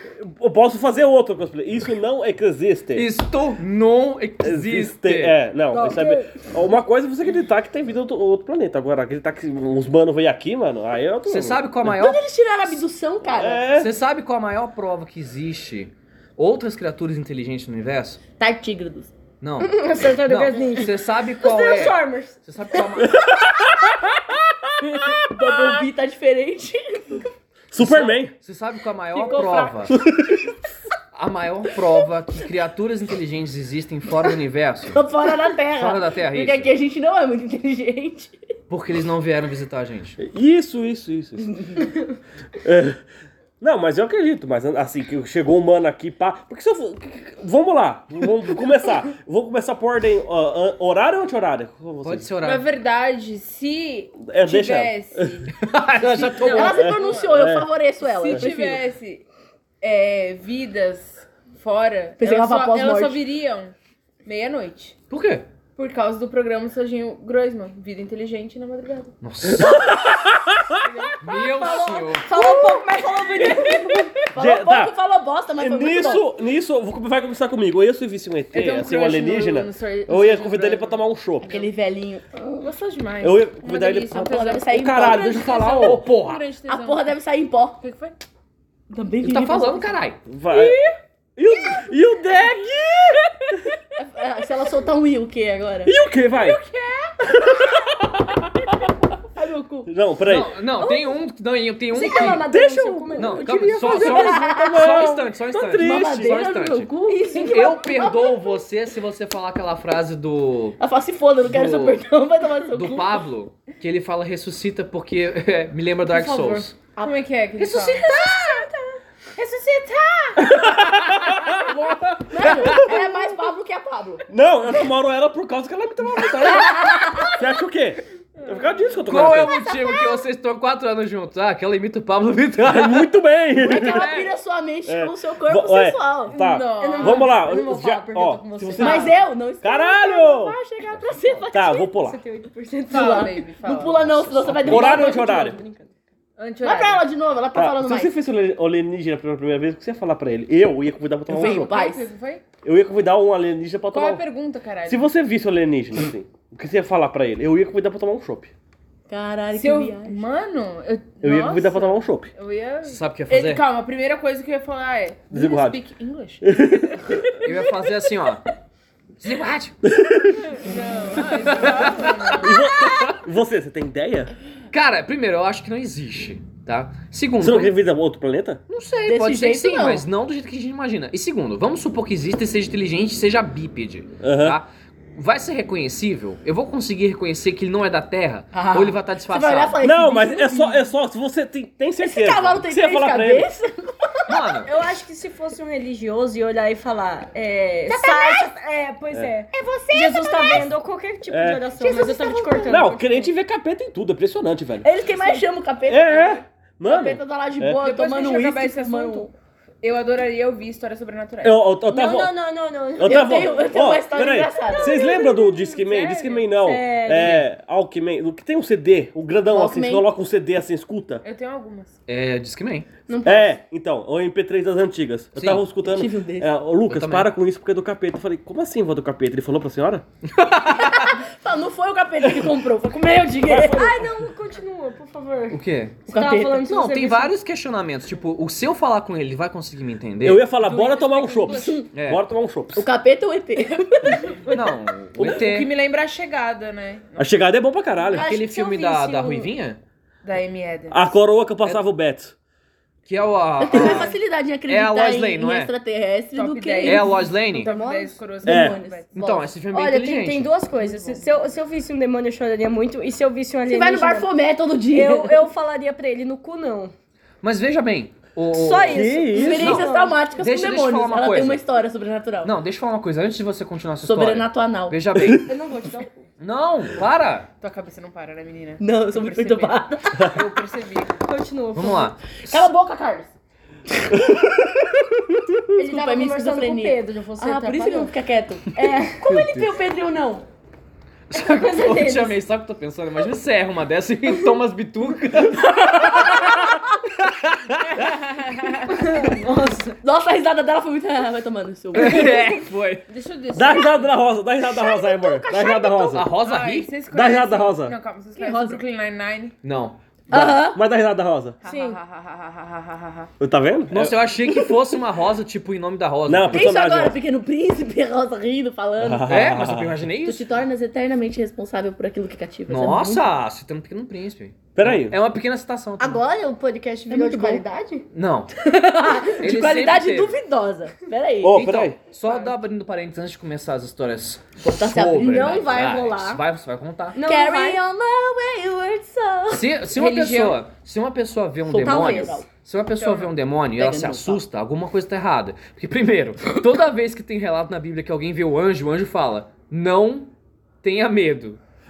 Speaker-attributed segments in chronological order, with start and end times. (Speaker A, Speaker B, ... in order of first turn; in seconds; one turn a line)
Speaker A: 0.2-3.1
Speaker B: 2.9-5.4
Speaker A: 4.4-11.6
Speaker C: 5.7-6.4
Speaker B: 11.2-12.2
Speaker D: 11.9-13.6
Speaker A: 13.3-13.9
Speaker B: 13.8-18.2
Speaker D: 18.4-19.1
Speaker B: 19.4-23.2
Speaker C: 19.6-22.4
Speaker A: 23.0-25.1
Speaker D: 25.2-27.2
Speaker A: 27.7-28.3
Speaker B: 27.8-29.9
Speaker D: 29.1-30.0
Speaker A: 29.9-30.5
Speaker B: 31.1-35.0
Speaker D: 34.9-38.4
Speaker B: 35.8-36.7
Speaker B: 38.7-40.2
Speaker A: 40.2-41.5
Speaker D: 41.5-41.8
Speaker A: 42.6-43.0
Speaker A: 43.6-52.3
Speaker B: 52.0-52.7
Speaker E: 52.4-59.2
Speaker A: 54.2-55.4
Speaker B: 55.5-56.9
Speaker D: 56.5-58.9
Speaker A: 56.8-57.7
Speaker E: 59.8-65.0
Speaker D: 62.2-63.2
Speaker B: 65.1-65.5
Speaker E: 65.8-69.1
Speaker B: 69.2-70.0
Speaker A: 69.5-70.8
Speaker E: 70.8-72.0
Speaker B: 71.2-72.3
Speaker C: 71.4-74.1
Speaker D: 72.3-72.8
Speaker D: 73.4-76.2
Speaker A: 74.2-74.9
Speaker A: 75.6-81.5
Speaker E: 78.5-81.7
Speaker D: 81.4-82.7
Speaker E: 82.6-87.1
Speaker A: 83.2-86.0
Speaker D: 84.1-85.5
Speaker B: 85.6-86.5
Speaker D: 86.7-87.8
Speaker E: 87.8-88.2
Speaker D: 88.9-90.0
Speaker B: 89.2-90.2
Speaker A: 90.3-90.8
Speaker A: 91.4-93.3
Speaker D: 94.0-96.0
Speaker A: 95.8-96.6
Speaker E: 96.3-97.1
Speaker A: 97.3-98.7
Speaker D: 99.3-99.9
Speaker A: 99.9-100.5
Speaker B: 100.2-102.4
Speaker C: 100.8-101.2
Speaker C: 101.9-104.6
Speaker A: 102.2-106.3
Speaker B: 103.2-110.8
Speaker D: 103.7-105.1
Speaker D: 105.8-107.8
Speaker C: 107.0-108.4
Speaker D: 110.8-113.2
Speaker B: 111.4-112.0
Speaker B: 112.7-116.7
Speaker C: 116.2-116.6
Speaker E: 116.9-118.0
Speaker B: 117.6-118.2
Speaker D: 118.1-118.7
Speaker C: 118.2-118.7
Speaker E: 119.3-120.6
Speaker A: 120.4-121.7
Speaker B: 120.6-121.5
Speaker D: 121.6-124.2
Speaker B: 122.5-123.0
Speaker A: 124.3-129.6
Speaker D: 126.4-127.3
Speaker E: 128.4-129.0
Speaker B: 129.1-133.1
Speaker D: 129.5-130.2
Speaker A: 132.6-134.1
Speaker D: 133.5-136.4
Speaker B: 133.7-134.3
Speaker A: 134.9-140.6
Speaker E: 136.3-137.6
Speaker C: 136.7-139.1
Speaker E: 138.4-139.1
Speaker D: 138.8-141.9
Speaker B: 141.0-141.4
Speaker A: 141.5-142.2
Speaker C: 141.7-143.3
Speaker E: 142.9-144.3
Speaker D: 142.9-145.2
Speaker B: 144.4-145.0
Speaker A: 144.6-145.6
Speaker C: 144.7-145.9
Speaker E: 146.4-147.1
Speaker D: 146.6-148.1
Speaker A: 147.5-151.7
Speaker D: 151.3-152.1
Speaker E: 151.3-152.4
Speaker A: 152.6-154.2
Speaker E: 153.9-155.1
Speaker A: 154.8-158.5
Speaker D: 159.1-160.2
Speaker E: 159.5-166.5
Speaker A: 161.2-162.3
Speaker B: 162.8-163.6
Speaker A: 165.3-165.8
Speaker A: 166.4-167.4
Speaker B: 167.4-168.4
Speaker B: 169.2-169.7
Speaker A: 169.8-170.5
Speaker E: 170.5-172.6
Speaker B: 171.4-172.1
Speaker A: 172.4-174.3
Speaker B: 174.7-177.8
Speaker A: 177.4-178.6
Speaker B: 178.7-189.8
Speaker D: 179.1-180.1
Speaker A: 184.2-184.6
Speaker D: 188.5-190.9
Speaker A: 189.8-193.5
Speaker D: 192.0-194.4
Speaker B: 194.3-194.7
Speaker C: 194.6-203.3
Speaker D: 197.9-198.5
Speaker D: 199.5-200.6
Speaker A: 201.3-201.6
Speaker D: 201.8-202.9
Speaker A: 202.7-204.8
Speaker D: 204.8-209.3
Speaker A: 205.9-207.8
Speaker E: 207.8-209.3
Speaker E: 209.8-211.7
Speaker A: 211.4-212.3
Speaker C: 211.9-213.9
Speaker A: 212.9-221.2
Speaker D: 213.0-215.0
Speaker C: 214.6-215.7
Speaker E: 215.7-216.5
Speaker C: 216.5-217.4
Speaker B: 217.2-217.4
Speaker D: 219.5-220.1
Speaker E: 221.2-222.0
Speaker B: 222.1-222.9
Speaker D: 223.1-223.5
Speaker A: 223.2-230.0
Speaker B: 225.3-225.6
Speaker D: 225.8-226.5
Speaker B: 226.9-227.3
Speaker B: 230.3-231.2
Speaker D: 230.7-234.0
Speaker A: 232.2-232.6
Speaker A: 233.4-234.1
Speaker C: 233.5-237.3
Speaker B: 235.5-236.0
Speaker D: 236.1-236.7
Speaker B: 236.6-240.5
Speaker A: 240.2-242.8
Speaker E: 240.6-241.8
Speaker D: 241.3-241.8
Speaker B: 241.9-242.2
Speaker D: 242.7-244.5
Speaker B: 244.5-245.7
Speaker E: 245.2-247.4
Speaker A: 247.2-248.3
Speaker D: 248.1-249.5
Speaker B: 248.2-249.8
Speaker E: 250.2-251.1
Speaker A: 250.9-252.3
Speaker B: 253.1-255.7
Speaker D: 253.6-259.5
Speaker A: 253.7-254.1
Speaker E: 256.3-259.1
Speaker B: 256.8-257.7
Speaker C: 257.7-258.1
Speaker A: 258.4-258.8
Speaker B: 259.1-260.5
Speaker C: 259.7-264.3
Speaker E: 260.7-261.4
Speaker D: 263.6-265.5
Speaker C: 264.9-266.9
Speaker B: 267.4-271.6
Speaker C: 268.5-270.2
Speaker A: 268.9-269.8
Speaker D: 269.3-272.6
Speaker B: 272.4-275.5
Speaker D: 274.0-275.0
Speaker C: 275.4-276.2
Speaker B: 276.4-277.5
Speaker E: 277.6-281.3
Speaker D: 278.8-280.4
Speaker C: 281.2-282.1
Speaker B: 281.8-282.7
Speaker D: 282.5-283.3
Speaker C: 285.8-288.1
Speaker D: 285.8-290.4
Speaker C: 288.7-289.3
Speaker B: 289.3-289.7
Speaker B: 291.3-298.2
Speaker C: 291.3-292.4
Speaker D: 295.9-296.6
Speaker E: 298.0-298.7
Speaker C: 298.9-300.0
Speaker D: 300.0-302.5
Speaker B: 301.9-303.1
Speaker E: 303.1-304.1
Speaker A: 303.5-306.3
Speaker C: 305.3-306.0
Speaker B: 306.1-306.9
Speaker E: 306.3-309.5
Speaker A: 307.1-307.9
Speaker D: 308.4-308.8
Speaker B: 309.6-310.0
Speaker D: 310.3-310.8
Speaker A: 310.3-311.6
Speaker E: 311.6-313.3
Speaker C: 311.6-312.0
Speaker A: 313.4-314.3
Speaker B: 313.9-316.7
Speaker A: 316.3-317.2
Speaker D: 316.5-319.3
Speaker A: 319.0-320.0
Speaker B: 319.3-320.5
Speaker D: 320.2-323.2
Speaker B: 322.7-326.2
Speaker A: 324.7-325.2
Speaker C: 326.0-328.1
Speaker D: 327.1-327.6
Speaker B: 328.1-328.5
Speaker D: 328.5-331.6
Speaker B: 329.3-330.4
Speaker A: 331.4-332.0
Speaker B: 331.5-337.2
Speaker E: 332.2-332.5
Speaker D: 334.6-336.0
Speaker C: 335.2-336.4
Speaker C: 337.1-337.8
Speaker D: 337.2-339.7
Speaker B: 339.5-351.6
Speaker E: 339.9-340.6
Speaker D: 341.7-342.4
Speaker C: 341.8-342.4
Speaker E: 343.0-343.3
Speaker D: 343.8-344.4